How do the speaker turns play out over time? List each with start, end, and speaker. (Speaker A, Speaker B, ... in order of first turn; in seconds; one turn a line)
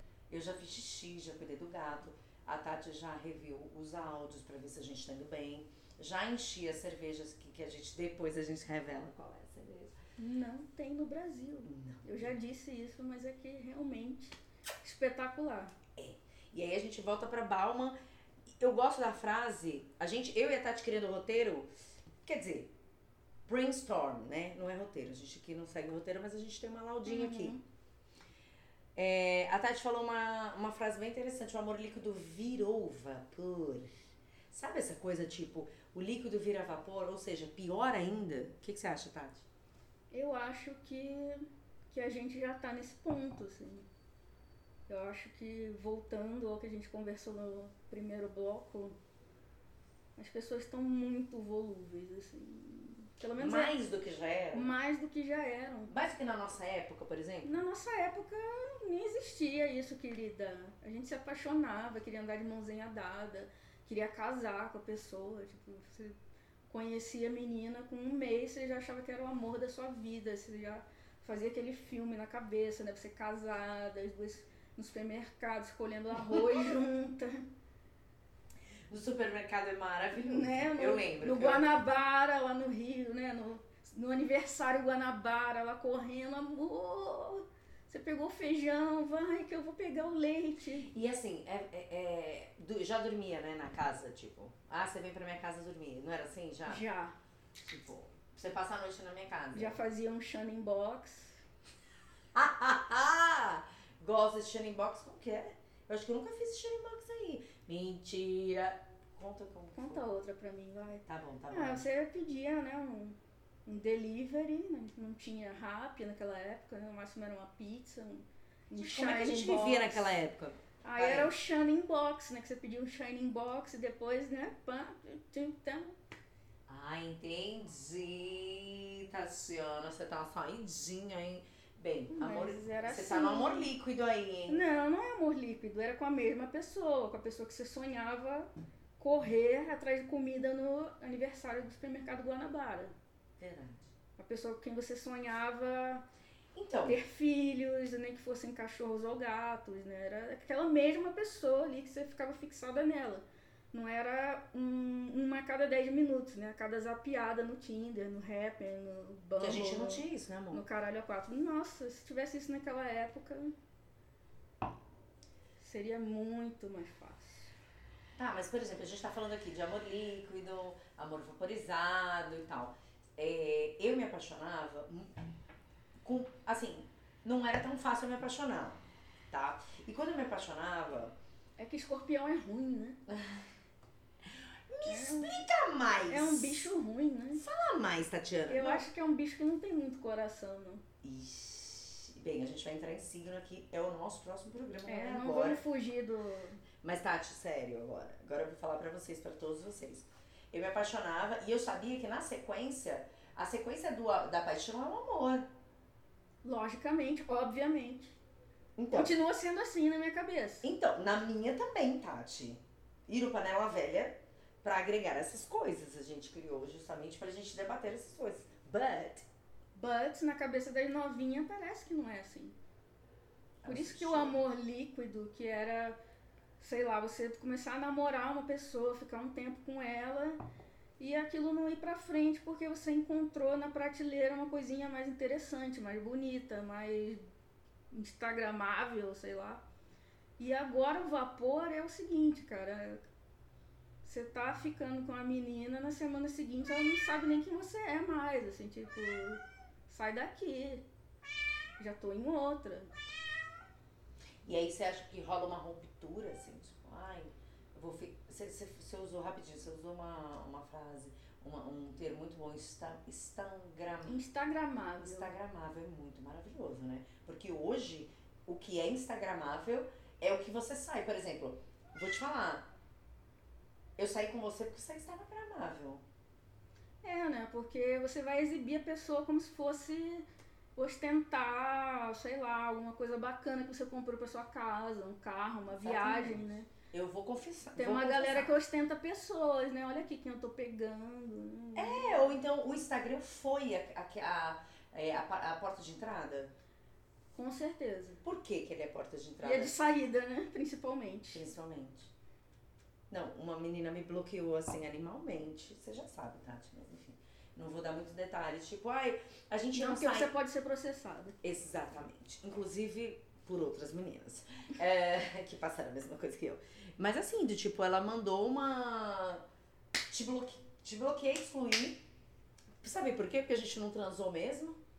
Speaker A: 0.3-10.0
Speaker B: 10.2-15.7
Speaker A: 11.6-12.3
Speaker A: 15.9-17.9
Speaker A: 18.5-21.7
Speaker A: 22.2-22.7
Speaker A: 23.4-27.6
Speaker B: 27.0-27.6
Speaker A: 28.9-34.0
Speaker A: 34.5-39.5
Speaker B: 40.1-43.9
Speaker B: 44.9-49.0
Speaker B: 50.2-53.7
Speaker A: 53.4-54.7
Speaker B: 54.5-55.9
Speaker A: 55.9-57.5
Speaker B: 57.4-66.2
Speaker B: 66.7-77.5
Speaker A: 78.9-81.7
Speaker B: 80.1-90.9
Speaker A: 90.9-96.8
Speaker B: 96.7-97.1
Speaker A: 97.6-99.8
Speaker B: 99.5-101.4
Speaker A: 102.3-110.0
Speaker B: 109.7-120.1
Speaker A: 111.0-111.8
Speaker A: 118.8-121.3
Speaker B: 120.8-126.0
Speaker A: 126.7-134.6
Speaker B: 132.1-133.7
Speaker B: 134.5-142.9
Speaker A: 143.4-143.9
Speaker B: 144.2-146.0
Speaker A: 146.5-147.0
Speaker B: 146.8-163.5
Speaker A: 159.4-160.6
Speaker B: 165.6-167.5
Speaker A: 168.2-175.2
Speaker A: 176.0-181.1
Speaker B: 181.6-183.0
Speaker A: 183.1-183.5
Speaker A: 184.2-186.6
Speaker B: 184.8-185.4
Speaker B: 186.1-187.4
Speaker A: 187.3-188.9
Speaker B: 188.5-190.8
Speaker A: 191.0-195.6
Speaker B: 194.8-196.6
Speaker A: 196.8-205.5
Speaker B: 206.4-208.2
Speaker A: 208.8-209.2
Speaker B: 208.9-210.7
Speaker A: 210.6-219.2
Speaker B: 219.7-222.6
Speaker A: 223.6-224.4
Speaker B: 223.6-226.0
Speaker B: 226.6-230.4
Speaker B: 231.0-237.2
Speaker B: 237.9-239.6
Speaker B: 240.4-243.0
Speaker B: 244.0-250.8
Speaker B: 251.8-252.9
Speaker A: 254.4-264.2
Speaker B: 264.1-265.3
Speaker A: 265.0-272.7
Speaker A: 274.0-276.0
Speaker B: 277.0-286.7
Speaker A: 285.8-288.6
Speaker B: 287.8-292.4
Speaker A: 291.7-296.5
Speaker B: 297.3-298.2
Speaker A: 298.2-299.8
Speaker B: 299.4-301.4
Speaker A: 301.3-302.1
Speaker A: 303.1-310.3
Speaker B: 309.7-311.4
Speaker A: 311.4-319.4
Speaker A: 320.1-322.0
Speaker A: 322.8-324.8